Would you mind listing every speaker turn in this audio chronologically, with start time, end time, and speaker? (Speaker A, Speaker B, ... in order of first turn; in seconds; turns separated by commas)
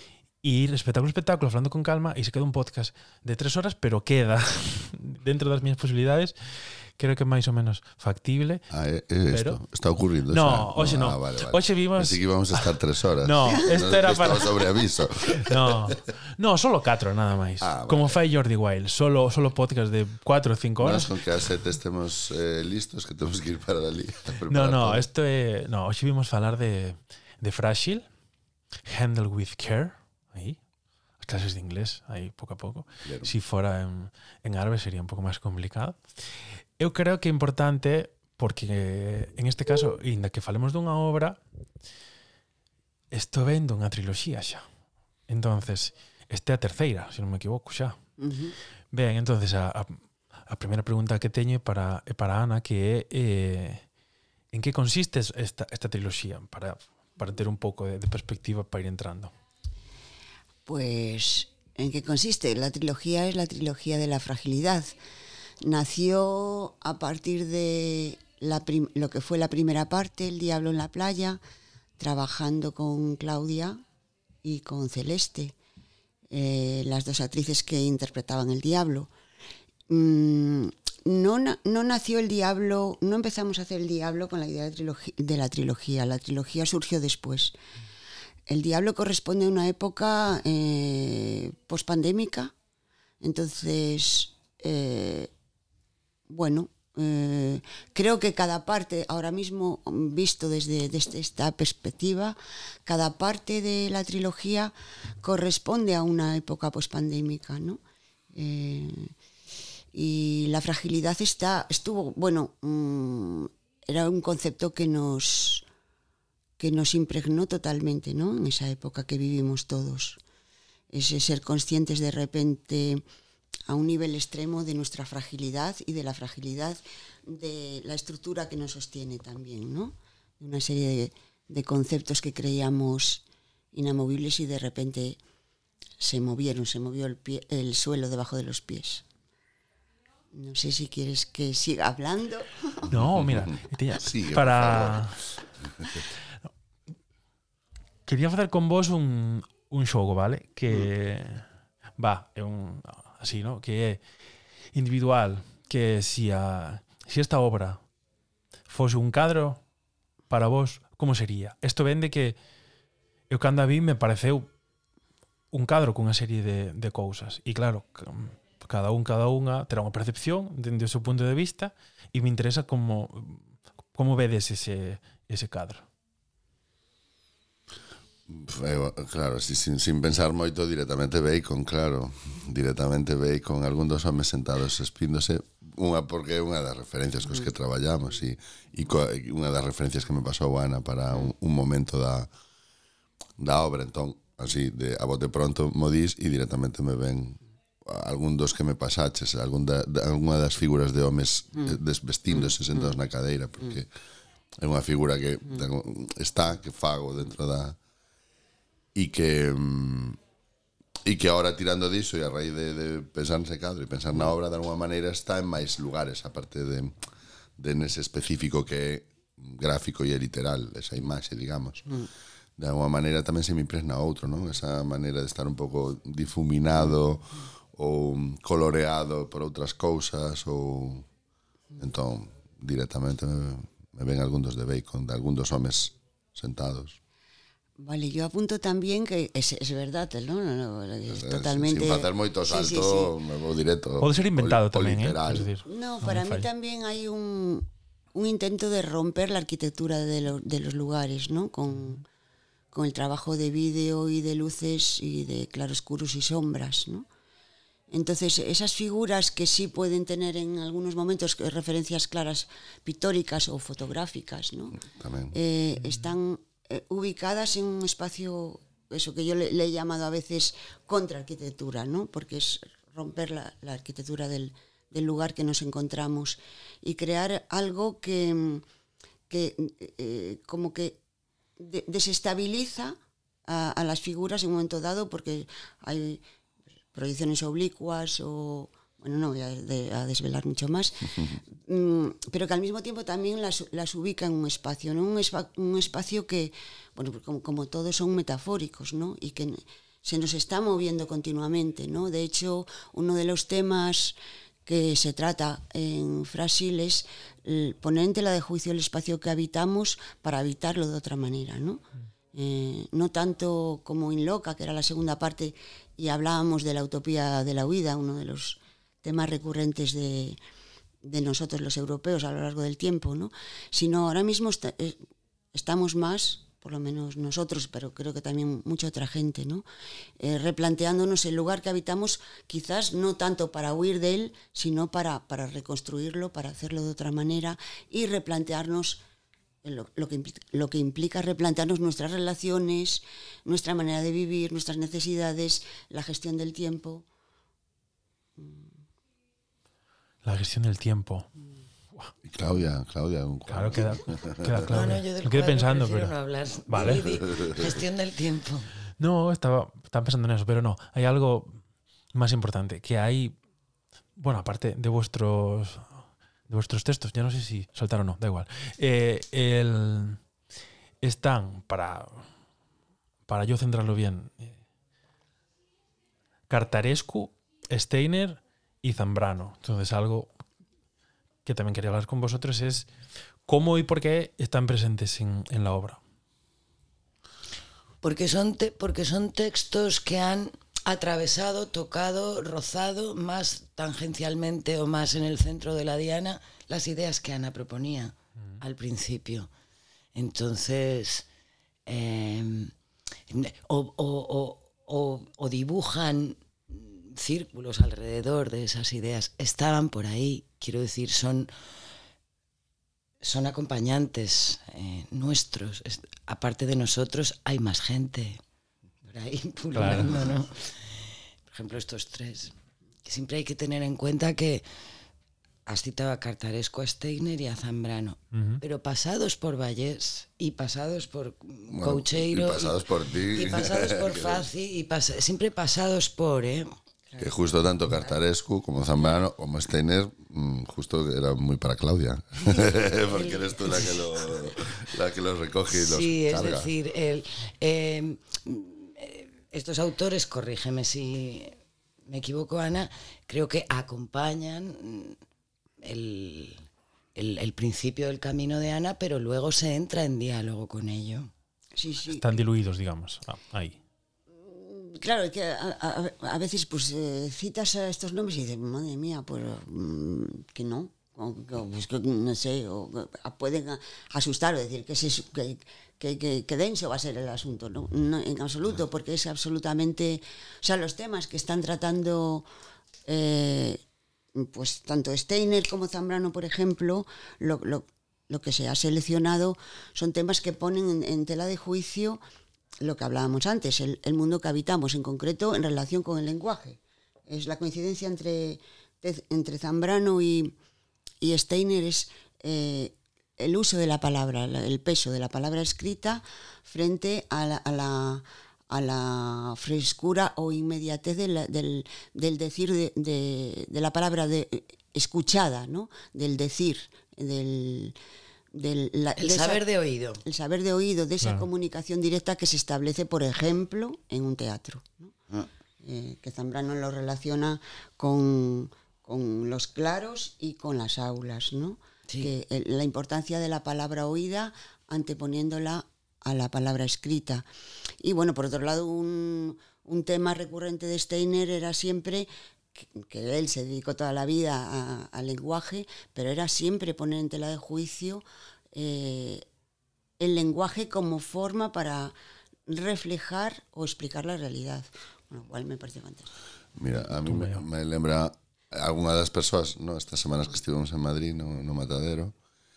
Speaker A: 0.4-8.6, Speaker B: 8.7-16.0, Speaker A: 9.3-9.6, Speaker A: 10.3-12.7, Speaker A: 13.2-14.7, Speaker A: 15.3-21.1, Speaker B: 17.6-18.2, Speaker B: 20.8-25.1, Speaker A: 24.5-28.1, Speaker A: 28.9-30.6, Speaker A: 31.2-36.0, Speaker B: 33.0-33.3, Speaker A: 36.8-41.4, Speaker A: 43.1-44.6, Speaker A: 45.3-48.0, Speaker C: 48.2-48.5, Speaker A: 48.9-53.8, Speaker A: 54.5-59.3, Speaker C: 60.6-64.9, Speaker C: 65.6-71.4, Speaker C: 72.0-73.8, Speaker C: 74.4-75.5, Speaker C: 76.3-79.1, Speaker C: 79.9-87.5, Speaker C: 88.5-92.5, Speaker C: 93.2-95.3, Speaker C: 96.3-107.8, Speaker C: 108.3-109.1, Speaker C: 109.9-115.7, Speaker C: 116.6-120.2, Speaker C: 120.9-123.0, Speaker C: 123.7-135.2, Speaker C: 136.0-139.0, Speaker C: 140.3-142.8, Speaker A: 142.9-145.3, Speaker B: 142.9-146.0, Speaker A: 148.1-151.4, Speaker A: 152.0-154.0, Speaker A: 154.7-157.8, Speaker A: 158.7-159.6, Speaker A: 160.3-162.4, Speaker A: 163.3-164.5, Speaker A: 165.5-175.9, Speaker B: 178.3-192.3, Speaker B: 193.4-203.9, Speaker B: 204.6-207.8, Speaker B: 208.9-210.2, Speaker B: 211.0-217.0, Speaker B: 217.6-222.0, Speaker B: 222.6-231.1, Speaker B: 231.8-237.0, Speaker C: 237.8-243.1, Speaker B: 241.1-245.5, Speaker A: 244.0-246.5, Speaker C: 245.6-252.1, Speaker C: 252.7-257.1, Speaker C: 257.9-264.8, Speaker B: 264.8-265.4, Speaker C: 265.3-278.6, Speaker C: 279.3-281.0, Speaker C: 281.6-283.0, Speaker C: 283.5-286.2, Speaker C: 286.9-320.4, Speaker C: 321.0-325.0, Speaker C: 325.5-329.6, Speaker C: 330.2-339.0, Speaker C: 339.6-347.0, Speaker C: 348.4-348.7, Speaker A: 350.2-351.3, Speaker B: 352.2-354.7, Speaker A: 353.5-356.1, Speaker D: 354.6-358.7, Speaker A: 356.6-357.1, Speaker B: 356.8-357.7, Speaker A: 359.0-361.6, Speaker A: 362.1-363.3, Speaker A: 364.2-365.9, Speaker A: 366.5-370.2, Speaker A: 371.0-372.3, Speaker A: 373.3-374.6, Speaker A: 376.5-380.3, Speaker A: 381.4-382.9, Speaker A: 383.4-386.0, Speaker D: 388.0-399.5, Speaker D: 400.1-401.2, Speaker D: 401.9-402.7, Speaker D: 403.3-411.5, Speaker D: 413.2-418.4, Speaker D: 419.0-422.5, Speaker A: 419.7-420.1, Speaker D: 423.0-424.6, Speaker D: 425.6-436.7, Speaker A: 428.3-428.6, Speaker B: 431.7-434.5, Speaker B: 437.2-446.7, Speaker D: 443.2-444.0, Speaker D: 445.7-455.2, Speaker D: 455.8-461.3, Speaker C: 461.8-462.4, Speaker A: 462.1-463.8, Speaker C: 464.4-482.5, Speaker C: 483.1-483.8, Speaker C: 484.3-492.2, Speaker C: 492.8-500.5, Speaker C: 501.2-518.0, Speaker C: 518.5-519.6, Speaker D: 519.2-520.2, Speaker C: 520.2-525.1, Speaker C: 525.8-537.4, Speaker C: 538.0-549.4, Speaker C: 550.2-552.1, Speaker C: 552.7-556.3, Speaker B: 556.8-562.3, Speaker A: 557.2-557.6